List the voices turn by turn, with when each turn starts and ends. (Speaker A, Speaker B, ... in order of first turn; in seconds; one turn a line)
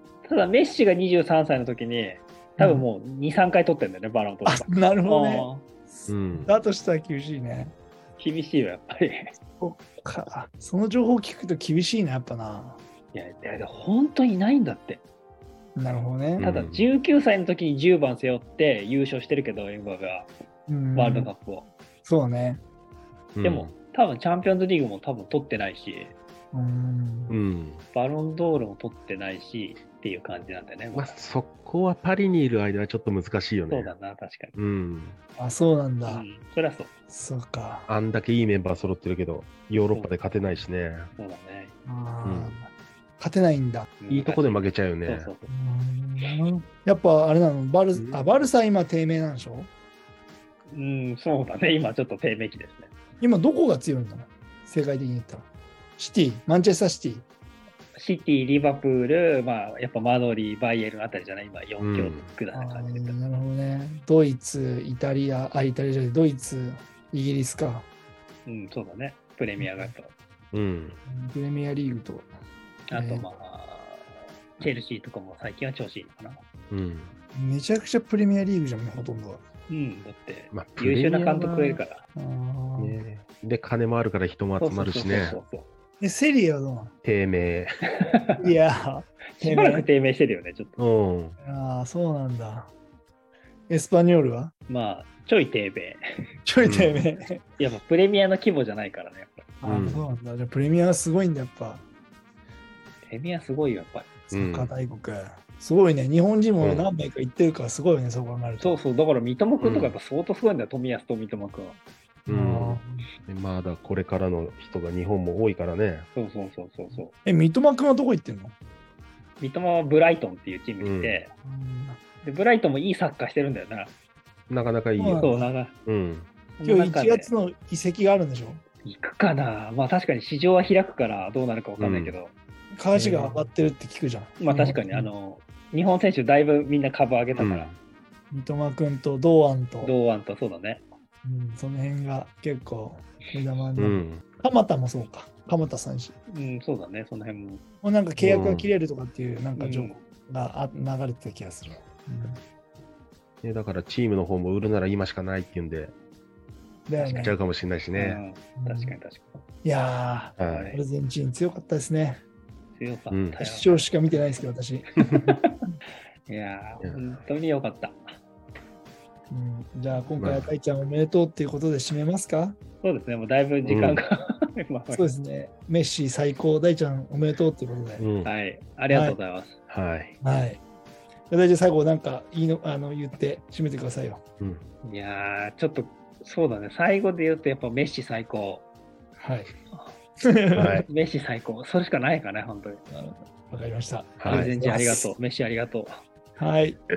Speaker A: 0.2-5.6
Speaker B: 2.6-2.9
Speaker B: 4.5-7.7
Speaker C: 6.1-6.5
Speaker A: 8.2-9.3
Speaker B: 9.6-12.8
Speaker A: 13.1-15.0
Speaker B: 15.8-16.4
Speaker C: 16.4-16.8
Speaker A: 16.4-20.3
Speaker B: 20.7-21.3
Speaker A: 20.9-21.7
Speaker B: 22.0-22.6
Speaker C: 23.3-23.7
Speaker A: 23.4-26.1
Speaker B: 26.5-27.3
Speaker C: 27.3-27.8
Speaker A: 27.9-31.2
Speaker C: 30.9-33.9
Speaker A: 33.7-34.5
Speaker C: 34.5-35.2
Speaker B: 35.4-36.2
Speaker A: 36.1-36.9
Speaker B: 37.1-37.9
Speaker C: 37.9-41.1
Speaker A: 41.1-41.7
Speaker B: 41.8-42.6
Speaker C: 42.2-42.6
Speaker B: 43.2-43.9
Speaker A: 44.0-45.5
Speaker C: 44.1-45.3
Speaker B: 45.5-49.7
Speaker C: 47.9-48.2
Speaker A: 50.7-52.9
Speaker B: 53.2-57.2
Speaker A: 57.9-63.2
Speaker C: 61.8-62.3
Speaker B: 62.5-67.9
Speaker A: 68.5-70.1
Speaker B: 69.6-69.9
Speaker C: 70.5-71.0
Speaker B: 71.0-72.3
Speaker A: 72.9-76.4
Speaker B: 72.9-73.3
Speaker C: 76.7-77.1
Speaker B: 77.3-79.4
Speaker A: 79.7-82.0
Speaker C: 80.5-81.7
Speaker B: 82.1-83.0
Speaker C: 82.8-85.4
Speaker A: 84.6-85.7
Speaker B: 86.0-86.9
Speaker C: 87.0-87.8
Speaker A: 87.9-88.5
Speaker B: 88.4-89.9
Speaker A: 89.3-90.8
Speaker C: 90.8-91.3
Speaker B: 91.4-92.7
Speaker B: 93.7-94.5
Speaker A: 94.7-96.0
Speaker B: 96.4-97.4
Speaker C: 96.6-97.0
Speaker A: 97.6-99.5
Speaker B: 99.6-101.8
Speaker C: 99.6-100.0
Speaker A: 103.0-104.1
Speaker B: 104.3-108.8
Speaker C: 104.3-104.7
Speaker C: 106.6-106.9
Speaker A: 108.6-111.8
Speaker C: 109.6-109.9
Speaker B: 112.3-113.0
Speaker C: 112.3-116.1
Speaker A: 116.1-117.1
Speaker B: 117.2-118.5
Speaker A: 119.4-121.3
Speaker C: 120.8-121.2
Speaker B: 121.4-122.0
Speaker A: 122.2-123.9
Speaker C: 124.5-125.3
Speaker B: 125.0-125.5
Speaker A: 125.2-125.7
Speaker C: 125.8-126.3
Speaker A: 126.6-127.3
Speaker B: 126.6-128.6
Speaker A: 128.8-132.3
Speaker C: 131.8-132.2
Speaker B: 132.7-135.1
Speaker A: 132.9-133.5
Speaker A: 134.4-137.7
Speaker C: 137.4-137.8
Speaker B: 138.3-139.9
Speaker A: 139.8-140.8
Speaker B: 141.2-146.1
Speaker C: 143.8-144.2
Speaker A: 146.3-147.6
Speaker B: 147.8-152.4
Speaker C: 148.2-148.7
Speaker A: 149.6-150.0
Speaker C: 153.4-155.9
Speaker B: 156.9-157.3
Speaker C: 157.0-158.2
Speaker A: 157.9-159.4
Speaker B: 158.6-158.9
Speaker B: 159.6-162.2
Speaker C: 160.4-160.7
Speaker A: 160.4-160.8
Speaker A: 162.8-164.3
Speaker C: 163.1-163.4
Speaker B: 163.4-164.9
Speaker A: 165.0-165.6
Speaker A: 166.3-168.0
Speaker B: 169.3-172.6
Speaker C: 170.2-170.5
Speaker A: 172.8-175.1
Speaker C: 173.7-174.0
Speaker B: 174.9-178.1
Speaker C: 178.0-178.3
Speaker A: 178.2-179.6
Speaker B: 178.9-179.2
Speaker C: 179.7-180.2
Speaker B: 180.2-180.6
Speaker B: 181.3-184.2
Speaker A: 184.8-188.6
Speaker B: 189.2-189.5
Speaker B: 190.2-190.8
Speaker C: 190.5-190.9
Speaker A: 190.8-192.8
Speaker B: 192.9-195.1
Speaker C: 194.2-194.5
Speaker A: 194.2-196.0
Speaker B: 196.4-196.8